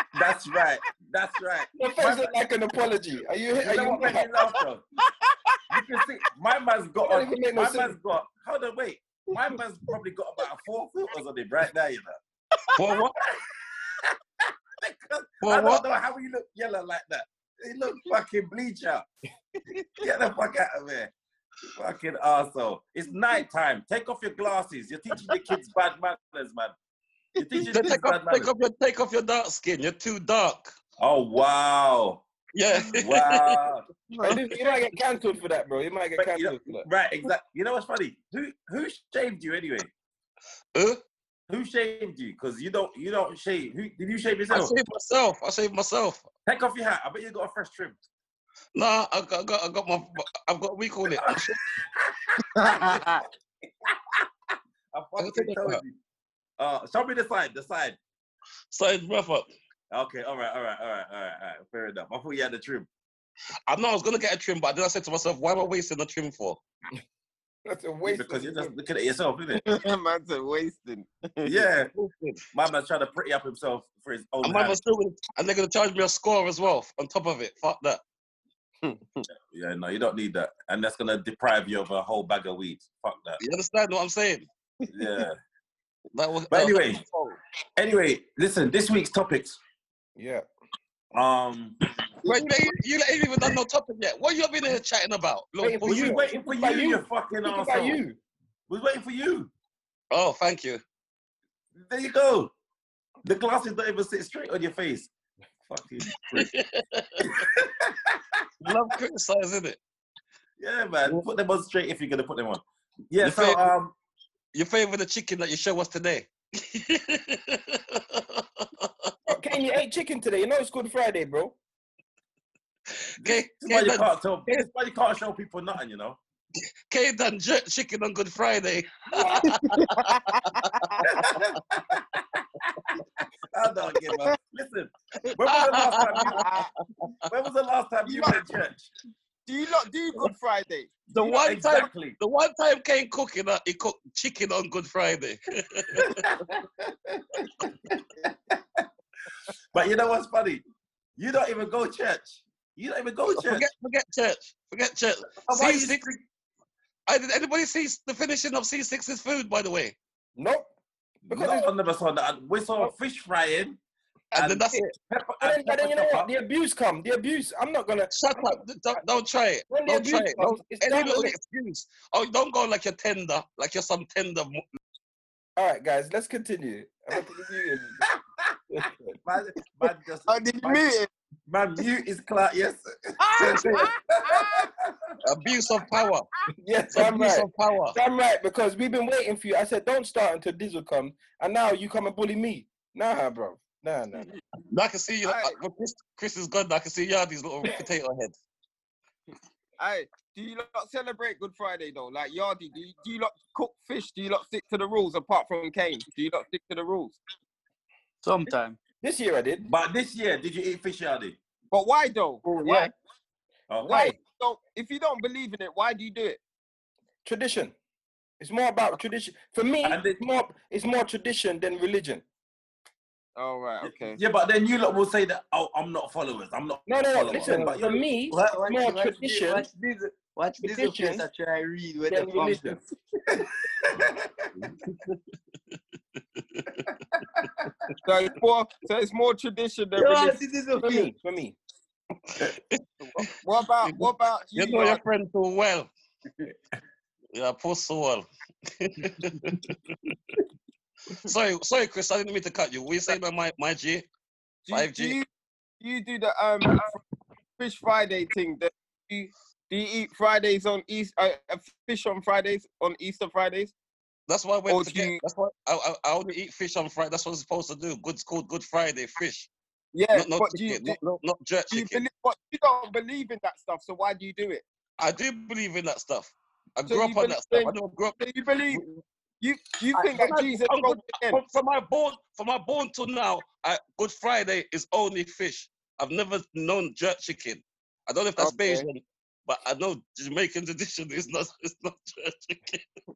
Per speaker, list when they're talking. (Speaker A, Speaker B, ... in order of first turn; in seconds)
Speaker A: 0.1-2.3, 3.6-4.8, 5.7-12.2, 14.8-19.1, 20.0-21.1, 21.8-26.7, 27.4-28.5, 31.0-32.2, 32.9-33.8, 36.2-39.9, 41.5-44.7, 46.5-48.0, 51.1-53.0, 54.9-56.0, 56.6-58.0, 59.9-62.9, 68.0-69.7, 71.5-71.9, 72.5-74.8, 79.5-83.4, 84.9-85.4, 86.5-87.0, 87.8-89.6, 91.1-91.8, 95.8-98.0, 98.7-99.5, 101.8-102.5, 103.2-105.1, 105.7-106.5, 107.2-108.1, 110.6-113.9, 123.2-126.2, 131.1-132.0, 133.5-136.5, 137.3-138.9, 141.1-142.2, 146.1-146.5, 149.7-150.6, 151.2-153.7, 155.4-156.2, 161.3-163.8, 164.3-166.3, 179.2-180.9, 181.5-184.7, 209.6-211.4, 213.7-214.1, 219.8-220.2, 223.8-228.0
Speaker B: 1.8-4.3, 7.0-8.0, 34.2-36.9, 67.7-68.7, 90.2-90.5, 95.6-98.2, 119.3-121.6, 160.4-160.7, 161.3-161.7, 165.4-168.5, 169.7-171.3, 175.6-178.1, 178.7-179.2, 186.6-194.3, 209.0-209.7, 212.5-212.9, 213.9-214.2, 217.2-217.7, 218.4-222.2, 226.9-229.7, 230.6-231.2, 232.1-232.8, 240.1-241.6
Speaker C: 12.8-13.1, 15.4-15.8, 27.7-30.7, 32.5-33.6, 40.8-41.0, 44.5-46.3, 48.8-51.6, 55.2-55.8, 58.7-59.5, 63.7-66.6, 71.9-72.4, 74.4-78.0, 83.4-84.5, 86.1-86.9, 92.3-96.2, 100.1-100.8, 106.3-107.4, 108.6-109.8, 113.2-113.7, 114.5-119.1, 123.0-124.6, 126.9-130.1, 135.4-136.5, 141.2-146.2, 153.4-156.1, 157.1-160.0, 164.3-164.9, 168.1-174.7, 183.4-183.8, 185.2-186.3, 186.9-188.0, 194.7-198.3, 234.7-235.2, 236.4-236.9, 242.4-243.3, 244.6-245.9, 247.3-248.3, 248.8-249.7, 251.2-254.1, 254.7-255.2, 264.3-269.5, 270.1-272.0, 275.0-278.2, 279.9-292.8
Speaker D: 27.4-27.8, 34.1-34.5, 52.7-53.0, 69.5-71.7, 78.8-79.2, 129.6-131.3, 136.2-136.7, 138.1-138.4, 139.5-141.0, 180.3-181.1, 195.2-195.6, 199.8-207.2, 211.7-212.9, 213.8-216.4, 223.4-224.2, 238.0-241.0, 243.0-245.0, 254.7-255.3, 255.8-257.0, 257.6-263.7, 264.7-265.2, 269.9-271.0, 271.7-274.6, 276.9-278.8, 279.4-281.4, 288.4-288.9
Speaker E: 208.2-208.8, 228.3-232.8, 240.0-240.9